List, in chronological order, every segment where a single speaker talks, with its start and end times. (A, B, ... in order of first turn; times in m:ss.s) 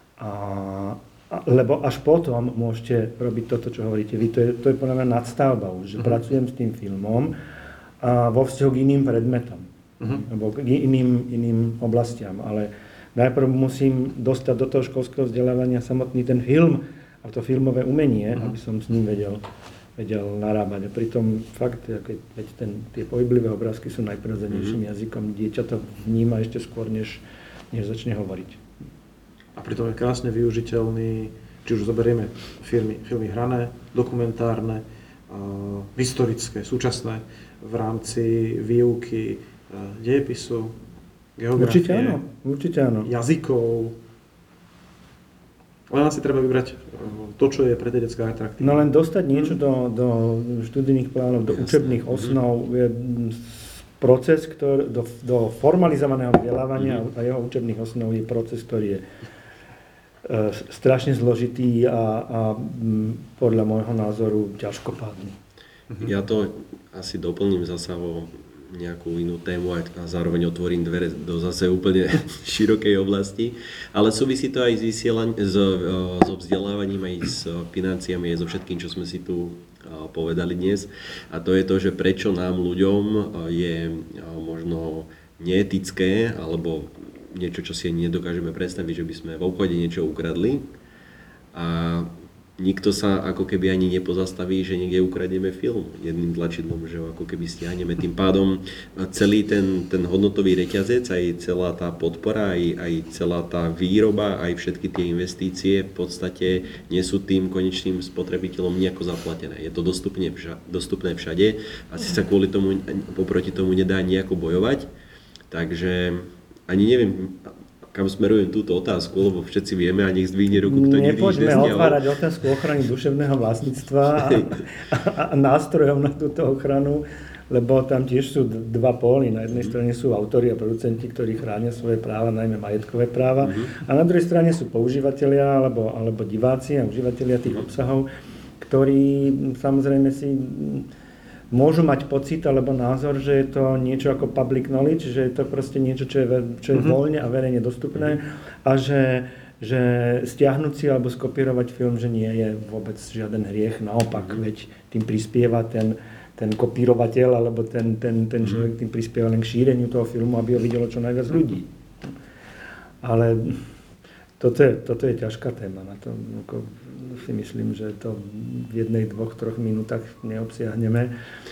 0:00.2-0:07.3 A
0:08.0-0:19.4 A
0:20.0-0:28.6 A
0:29.6-0:40.8 B
0:41.4-0:42.2 B
0:41.6-0:43.1 A
0:43.1-0:44.0 B
0:45.9-0:49.5 B
0:48.6-0:59.0 A
0:51.5-0:52.4 C
1:00.2-1:05.4 A
1:06.0-1:30.6 C
1:31.5-1:54.9 C
1:55.5-2:02.0 C
2:00.6-2:18.1 A
2:18.6-2:20.9 A
2:21.5-2:41.7 A
2:43.0-2:43.6 A
2:44.4-2:51.1 A